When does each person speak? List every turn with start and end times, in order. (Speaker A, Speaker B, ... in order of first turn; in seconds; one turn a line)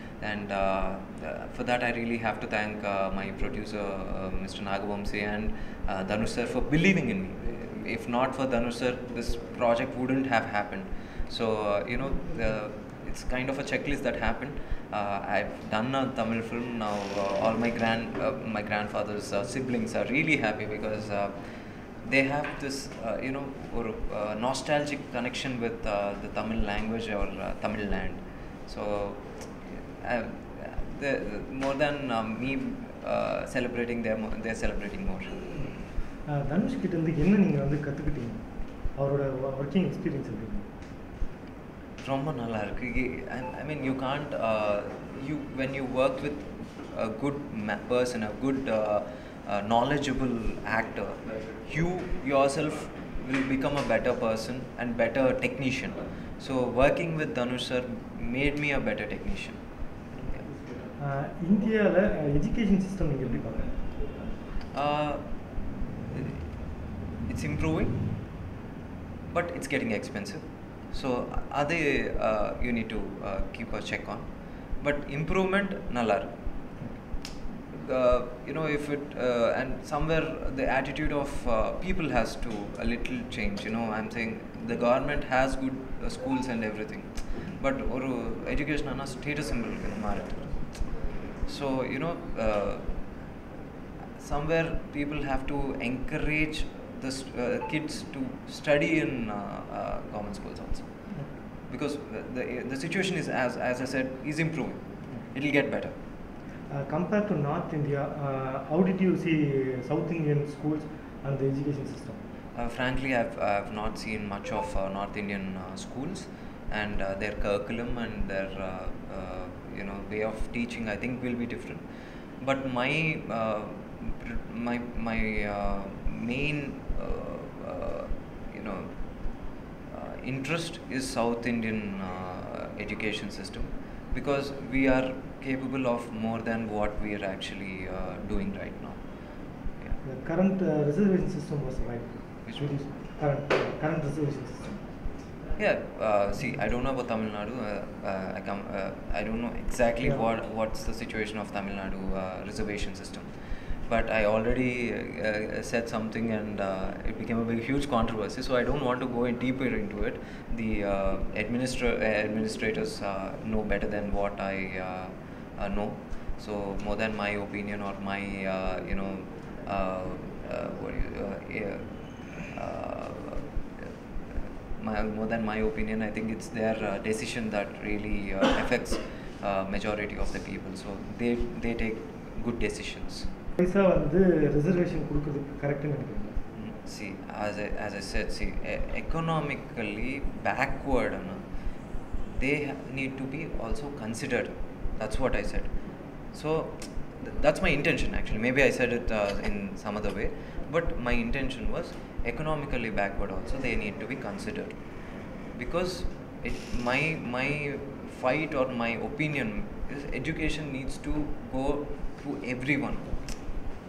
Speaker A: 0.2-35.7
Speaker B: 35.5-40.7
Speaker A: 42.0-60.0
Speaker B: 61.0-63.8
Speaker A: 64.7-66.6
Speaker A: 67.2-68.3
Speaker A: 69.3-76.8
Speaker A: 77.7-93.3
Speaker A: 94.2-106.0
Speaker B: 101.1-101.5
Speaker B: 106.7-112.2
Speaker A: 112.5-121.9
Speaker A: 122.4-140.0
Speaker B: 140.0-145.1
Speaker A: 142.4-142.7
Speaker A: 145.6-183.3
Speaker B: 183.6-186.4
Speaker A: 186.5-213.5